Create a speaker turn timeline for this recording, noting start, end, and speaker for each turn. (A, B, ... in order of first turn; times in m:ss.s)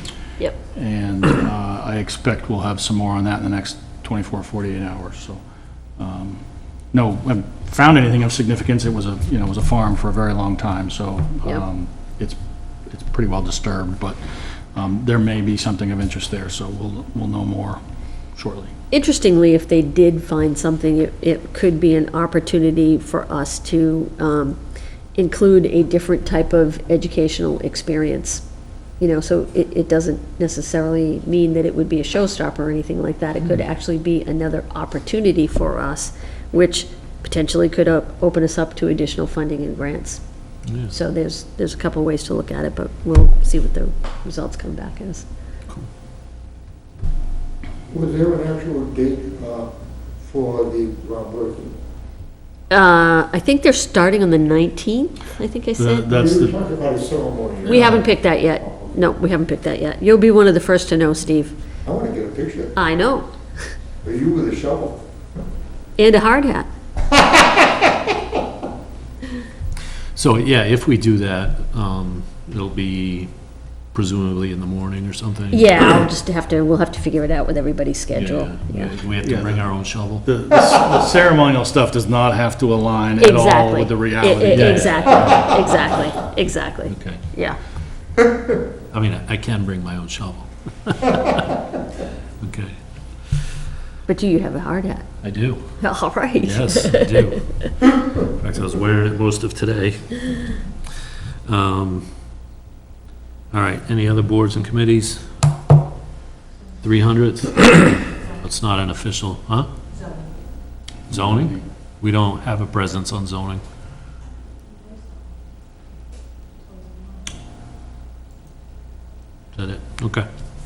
0:00.7-0:05.4 A
0:06.0-0:12.4 A
0:12.9-0:14.2 A
0:14.8-0:17.8 A
0:18.4-0:18.7 A
0:18.9-0:24.6 B
0:25.2-0:28.4 B
0:29.0-0:40.2 B
0:40.7-0:40.9 C
0:40.9-0:45.2 B
0:47.9-0:49.7 D
0:50.2-0:51.8 D
0:52.7-0:56.1 B
0:55.8-0:56.6 A
0:56.1-0:58.1 D
0:57.6-1:01.6 B
0:57.7-0:58.0 A
0:58.6-0:58.9 D
1:01.8-1:02.8 D
1:02.8-1:03.7 B
1:04.0-1:05.0 D
1:06.0-1:06.7 B
1:10.2-1:13.3 C
1:13.9-1:15.8 C
1:15.5-1:18.9 B
1:18.1-1:20.2 C
1:19.2-1:19.7 A
1:20.2-1:25.2 A
1:23.2-1:27.6 B
1:24.5-1:25.8 C
1:26.9-1:27.2 C
1:28.9-1:31.6 C
1:32.4-1:32.8 C
1:34.1-1:35.1 B
1:35.2-1:35.8 C
1:35.8-1:37.3 B
1:36.4-1:42.1 C
1:43.5-1:45.3 C
1:46.8-1:49.7 C
1:51.1-1:51.6 A
1:51.1-1:53.6 C
1:59.6-2:00.3 C